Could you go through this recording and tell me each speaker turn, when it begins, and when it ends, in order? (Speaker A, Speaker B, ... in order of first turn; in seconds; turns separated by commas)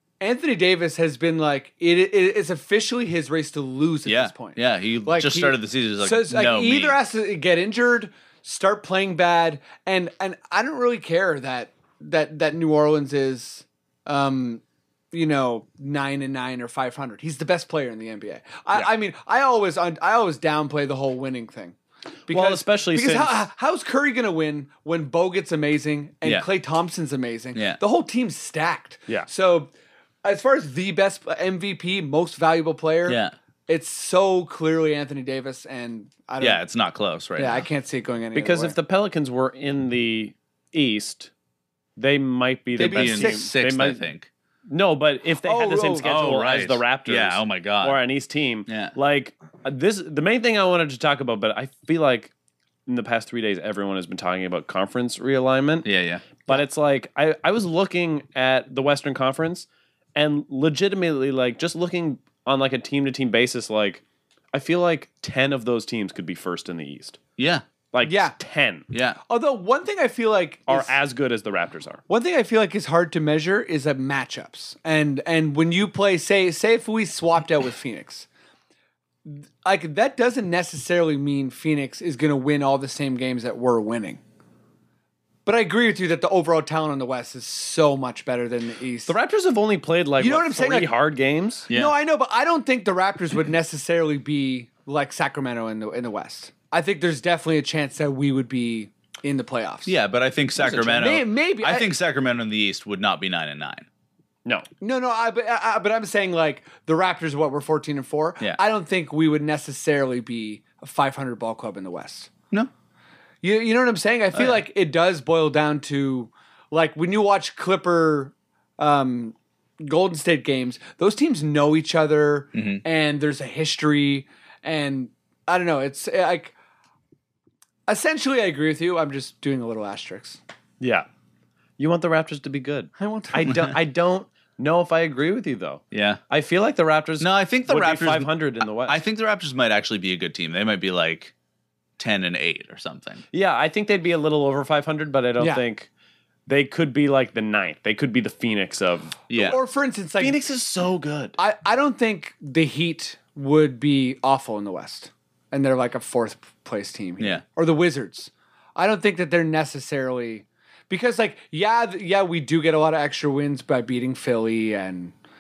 Speaker A: 0.2-21.8, Speaker B: 4.0-7.0, Speaker A: 22.3-29.7, Speaker C: 22.3-23.4, Speaker B: 27.5-27.8, Speaker A: 30.2-36.6, Speaker B: 33.0-33.3, Speaker B: 36.4-37.6, Speaker A: 37.4-38.8, Speaker C: 38.3-41.3, Speaker C: 42.0-44.1, Speaker A: 42.8-43.5, Speaker B: 42.8-44.3, Speaker C: 44.7-52.3, Speaker A: 45.4-46.2, Speaker B: 46.0-48.0, Speaker B: 48.7-48.9, Speaker C: 52.9-55.9, Speaker B: 55.8-56.5, Speaker C: 56.5-64.0, Speaker C: 64.5-67.2, Speaker B: 67.4-67.6, Speaker C: 67.9-68.8, Speaker A: 68.0-68.3, Speaker B: 68.9-69.2, Speaker A: 69.3-70.9, Speaker C: 70.7-72.0, Speaker A: 72.1-78.3, Speaker A: 79.2-84.2, Speaker A: 85.5-89.1, Speaker C: 89.1-91.7, Speaker A: 90.2-90.9, Speaker B: 91.7-91.9, Speaker A: 91.7-99.9, Speaker B: 99.8-103.8, Speaker A: 100.6-101.9, Speaker A: 104.8-112.3, Speaker A: 113.4-126.5, Speaker B: 122.5-122.8, Speaker A: 127.9-130.4, Speaker C: 130.8-131.1, Speaker C: 131.8-139.0, Speaker A: 133.0-133.6, Speaker B: 135.9-136.2, Speaker B: 137.2-141.3, Speaker B: 142.0-143.2, Speaker C: 143.3-145.9, Speaker A: 145.4-145.6, Speaker C: 146.5-149.2, Speaker B: 149.3-149.6, Speaker A: 149.3-150.4, Speaker C: 150.2-151.4, Speaker A: 151.4-165.1